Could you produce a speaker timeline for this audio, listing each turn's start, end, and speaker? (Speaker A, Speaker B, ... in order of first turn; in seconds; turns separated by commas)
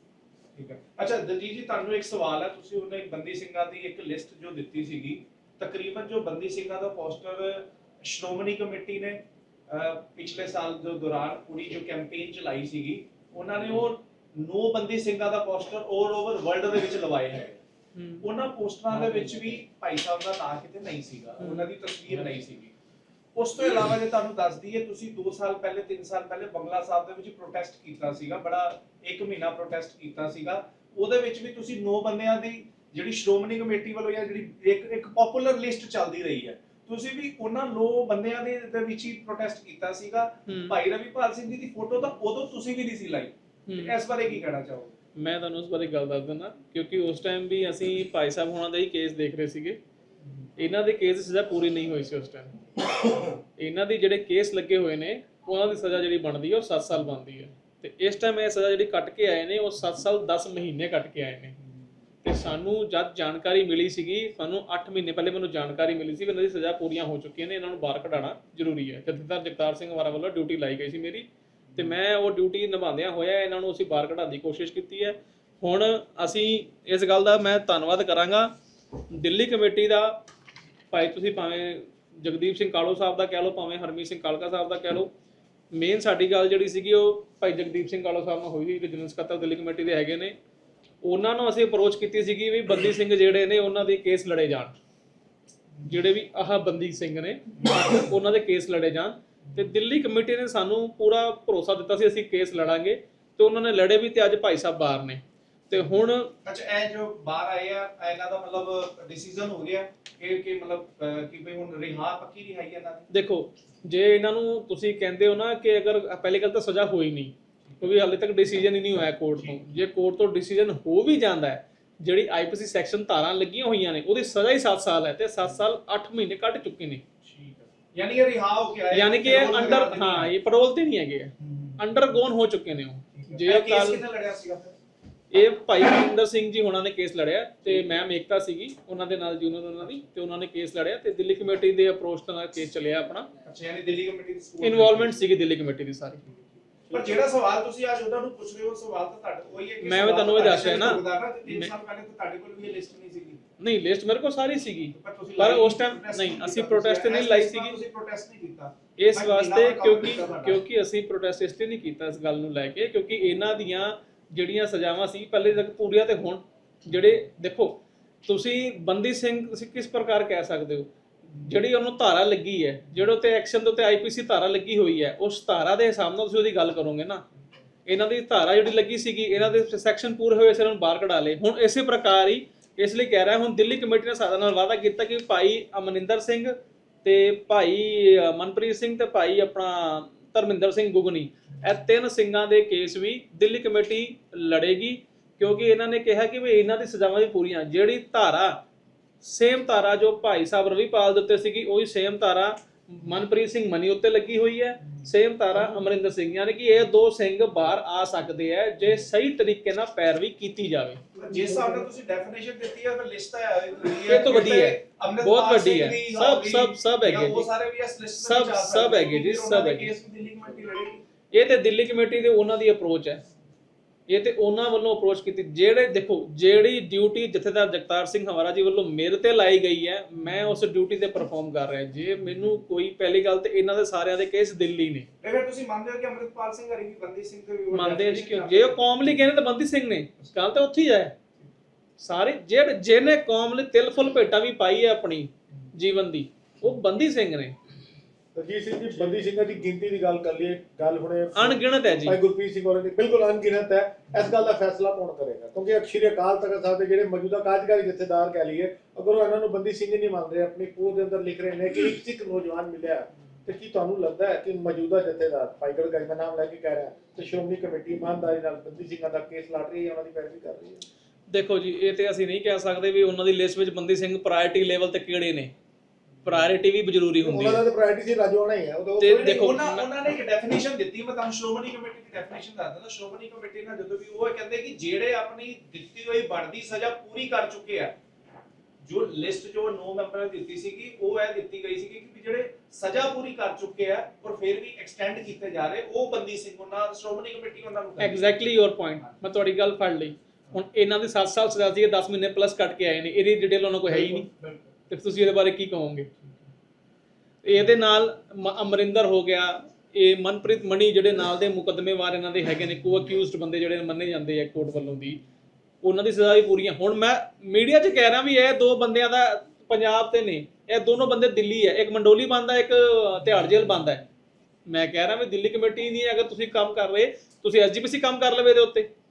Speaker A: 0.6-17.6, Speaker B: 17.9-18.3, Speaker A: 18.2-22.7, Speaker B: 21.4-21.7, Speaker A: 23.4-45.0, Speaker B: 40.5-40.8, Speaker B: 43.7-44.0, Speaker B: 45.2-49.8, Speaker B: 50.6-52.6, Speaker B: 53.6-61.6, Speaker B: 62.2-78.5, Speaker B: 79.1-80.2, Speaker B: 80.9-85.1, Speaker B: 85.7-90.4, Speaker B: 91.0-94.8, Speaker B: 95.8-106.3, Speaker A: 106.5-113.1, Speaker B: 113.1-127.0, Speaker A: 119.4-119.7, Speaker A: 127.2-130.3, Speaker B: 128.9-134.0, Speaker A: 131.4-131.8, Speaker A: 133.2-134.8, Speaker B: 135.3-143.3, Speaker A: 143.4-145.2, Speaker B: 144.6-146.2, Speaker A: 146.9-153.4, Speaker B: 149.8-151.7, Speaker B: 153.6-157.8, Speaker A: 154.9-160.6, Speaker B: 159.0-177.2, Speaker B: 177.9-198.6, Speaker B: 199.2-211.0, Speaker A: 211.2-221.0, Speaker B: 214.1-217.5, Speaker B: 218.2-219.9, Speaker B: 221.3-223.2, Speaker B: 224.1-235.1, Speaker A: 235.2-238.8, Speaker B: 237.7-241.2, Speaker B: 242.0-247.6, Speaker C: 248.3-270.9, Speaker B: 251.3-252.2, Speaker B: 271.3-275.5, Speaker B: 276.2-277.6, Speaker C: 277.2-279.5, Speaker B: 279.0-280.0, Speaker A: 279.1-287.9, Speaker A: 288.8-298.5, Speaker B: 298.0-304.3, Speaker A: 303.9-304.7, Speaker B: 304.9-306.1, Speaker B: 307.4-315.2, Speaker B: 315.8-324.0, Speaker B: 324.7-328.9